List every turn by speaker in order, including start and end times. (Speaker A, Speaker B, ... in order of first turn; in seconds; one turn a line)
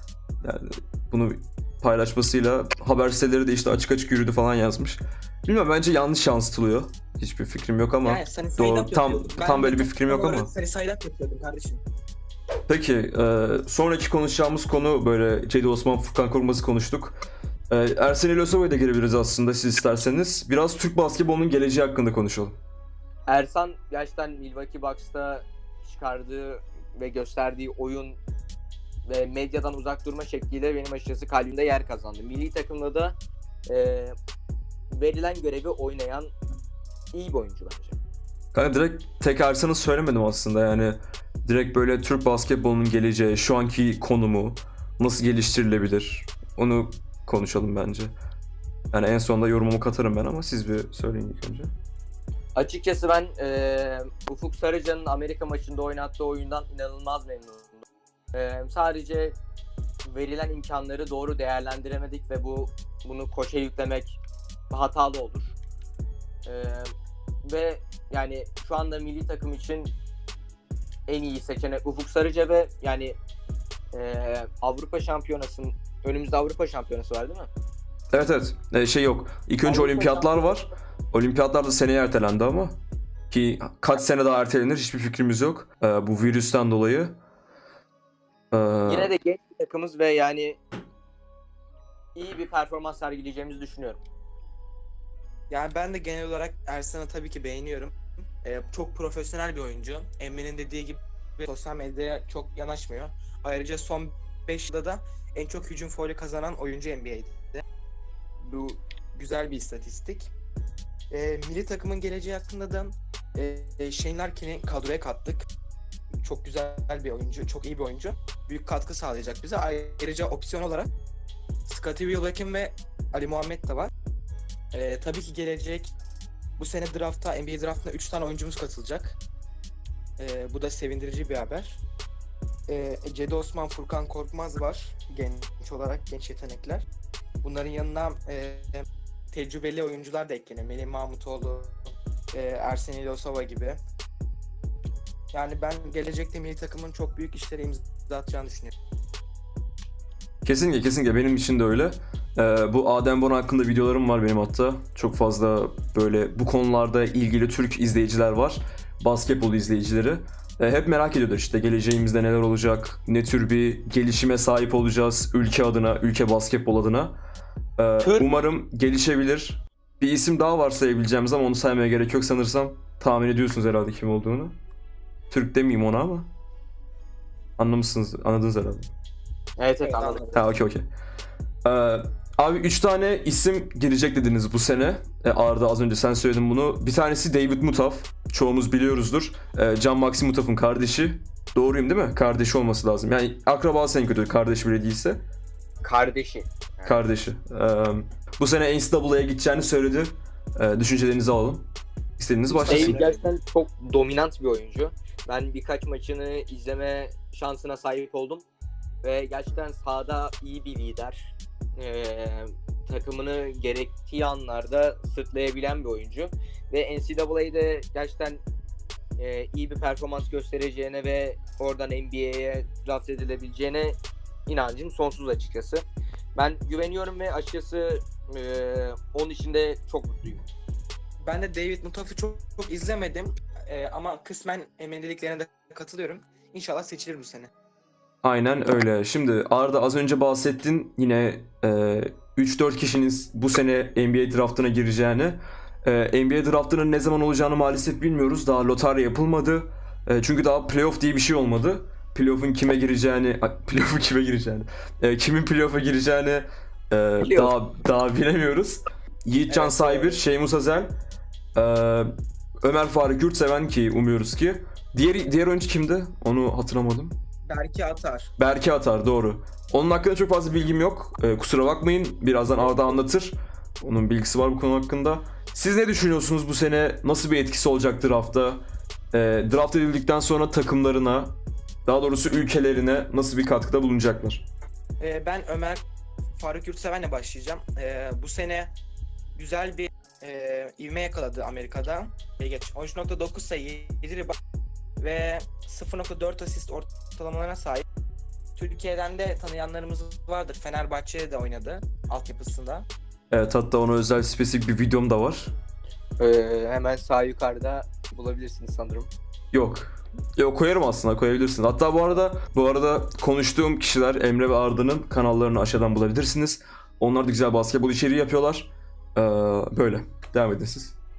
Speaker A: 0.4-10.5
Speaker B: 8.0-11.8
Speaker A: 12.7-22.6
Speaker C: 23.3-28.2
Speaker C: 29.1-33.1
Speaker C: 33.7-34.1
Speaker C: 34.9-36.3
Speaker C: 37.1-38.0
Speaker A: 38.5-48.1
Speaker A: 48.9-51.7
Speaker C: 52.6-59.4
Speaker C: 60.1-64.2
Speaker C: 64.7-65.5
Speaker C: 66.5-66.9
Speaker C: 67.5-69.9
Speaker C: 71.1-73.2
Speaker C: 73.9-77.5
Speaker A: 78.1-82.8
Speaker C: 79.6-80.7
Speaker A: 83.3-87.2
Speaker A: 88.5-89.1
Speaker C: 88.9-90.6
Speaker C: 92.2-94.0
Speaker B: 95.5-107.6
Speaker B: 109.1-110.3
Speaker B: 111.1-115.5
Speaker B: 116.2-120.9
Speaker B: 121.7-123.9
Speaker B: 124.7-126.0
Speaker B: 126.6-129.2
Speaker B: 130.2-131.8
Speaker B: 132.7-136.9
Speaker B: 137.4-143.8
Speaker B: 145.3-148.7
Speaker A: 150.4-167.2
Speaker A: 167.8-174.6
Speaker C: 168.0-168.3
Speaker A: 175.3-176.3
Speaker A: 177.6-178.9
Speaker C: 179.6-180.3
Speaker B: 179.8-180.5
Speaker A: 180.3-180.8
Speaker A: 181.7-195.2
Speaker C: 195.8-197.0
Speaker A: 196.8-201.7
Speaker A: 202.2-203.0
Speaker B: 202.5-203.3
Speaker C: 202.7-208.5
Speaker C: 209.0-218.4
Speaker C: 219.2-225.8
Speaker C: 226.4-230.5
Speaker B: 231.2-237.5
Speaker A: 238.2-260.9
Speaker C: 257.2-257.5
Speaker B: 259.5-260.2
Speaker A: 261.6-267.2
Speaker B: 267.5-268.3
Speaker A: 268.4-284.5
Speaker B: 285.0-285.8
Speaker B: 286.4-288.8
Speaker B: 289.4-294.4
Speaker B: 295.0-297.9
Speaker B: 298.6-302.9
Speaker A: 303.3-305.5
Speaker C: 306.2-309.1
Speaker A: 309.5-321.0